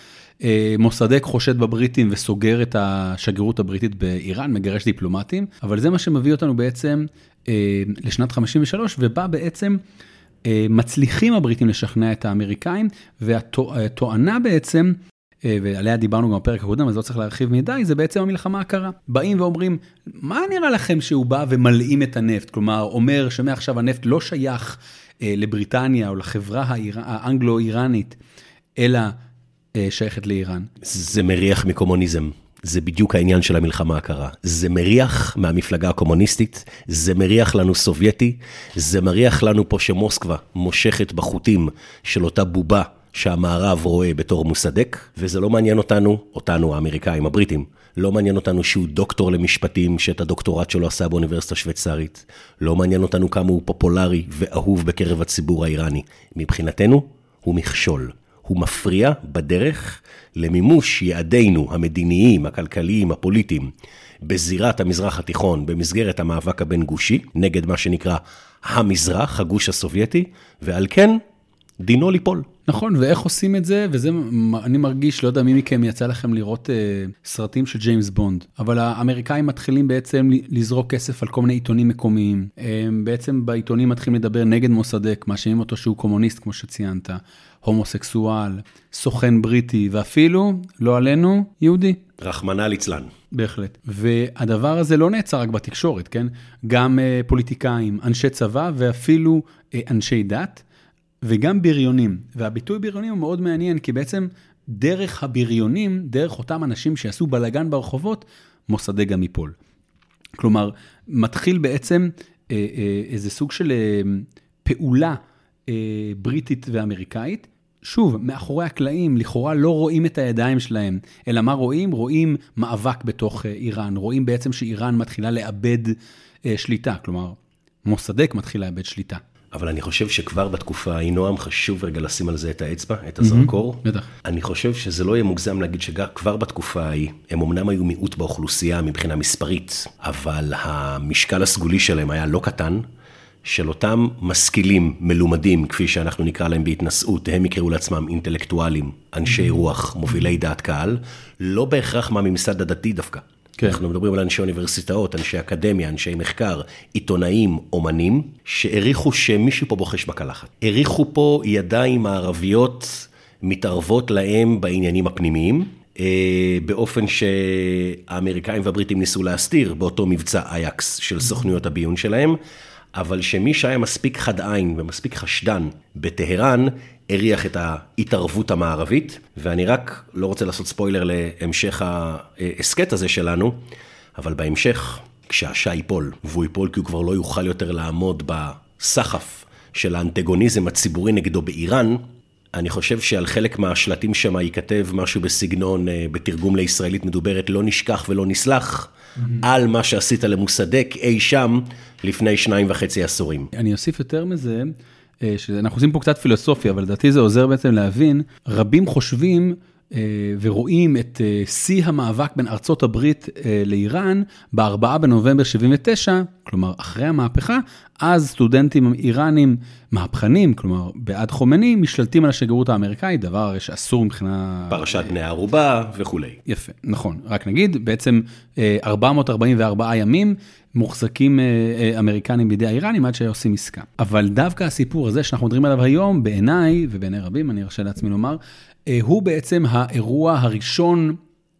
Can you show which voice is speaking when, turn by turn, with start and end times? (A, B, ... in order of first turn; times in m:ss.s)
0:00.4-0:09.8 A
0:10.4-0:28.2 A
0:28.8-0:29.2 A
0:29.7-0:30.7 A
0:30.8-1:03.7 B
1:04.2-1:11.2 B
1:11.8-1:12.5 B
1:12.7-1:32.0 A
1:32.2-1:33.1 B
1:33.3-1:40.6 A
1:41.2-1:49.5 A
1:50.4-2:09.2 A
2:09.5-2:22.8 B
2:13.2-2:14.1 A
2:23.4-2:52.4 B
2:52.9-3:03.6 B
3:04.2-3:12.0 B
3:12.5-3:23.5 B
3:23.5-3:44.9 A
3:44.7-3:46.4 B
3:46.5-4:01.2 A